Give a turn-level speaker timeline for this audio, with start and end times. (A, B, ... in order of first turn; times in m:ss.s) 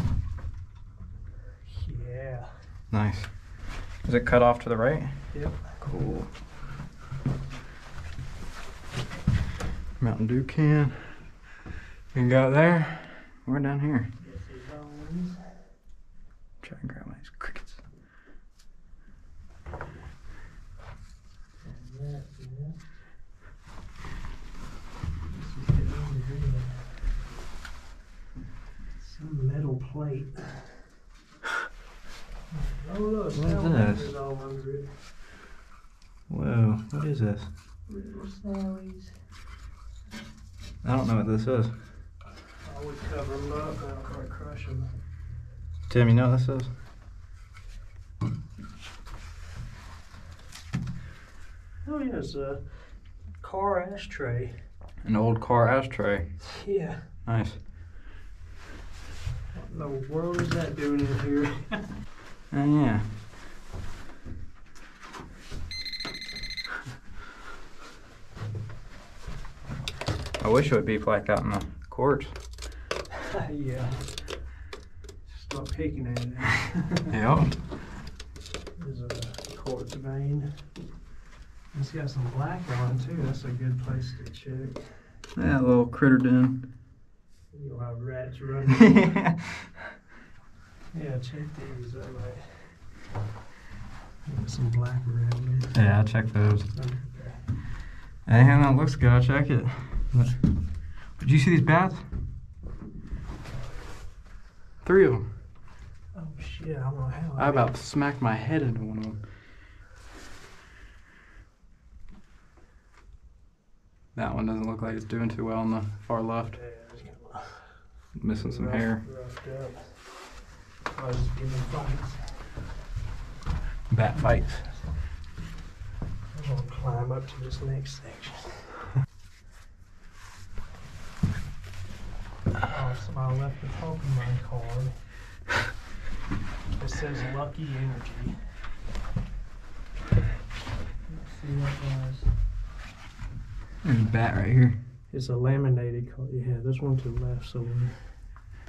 0:01.7-0:02.6 A
0:02.9-0:03.4 B
0:04.0-0:06.3 B
0:05.3-0:05.8 A
0:10.0-0:11.0 B
0:12.1-0:14.1 B
0:14.2-0:15.7 A
0:16.6-0:17.8 B
0:21.6-0:22.9 A
0:25.3-0:27.0 A
0:29.0-0:30.8 A
0:32.5-0:35.0 A
0:33.3-0:34.1 B
0:36.3-0:37.5 B
0:37.9-0:39.2 A
0:40.8-0:41.8 B
0:42.6-0:44.9 A
0:45.9-0:46.7 B
0:51.8-0:54.6 A
0:55.0-0:56.3 B
0:56.6-0:57.1 A
0:57.3-0:57.6 B
0:59.5-1:01.9 A
1:02.5-1:03.1 B
1:10.4-1:12.4 B
1:13.3-1:14.2 A
1:15.3-1:17.1 A
1:17.1-1:17.6 B
1:18.8-1:20.6 A
1:21.7-1:25.1 A
1:25.4-1:26.7 B
1:27.5-1:29.3 A
1:28.8-1:29.8 B
1:30.9-1:32.8 A
1:34.3-1:35.8 A
1:35.7-1:36.7 B
1:36.7-1:37.4 A
1:38.3-1:40.4 B
1:41.1-1:42.1 B
1:44.8-1:45.3 B
1:46.2-1:47.7 A
1:47.4-1:49.2 B
1:54.2-1:56.6 B
1:56.5-2:00.3 A
1:58.2-1:59.0 B
2:00.9-2:02.6 A
2:03.9-2:04.7 B
2:04.1-2:05.0 A
2:06.3-2:08.9 A
2:12.6-2:15.0 A
2:16.8-2:18.4 A
2:21.1-2:22.3 A
2:23.8-2:24.8 B
2:25.1-2:28.2 A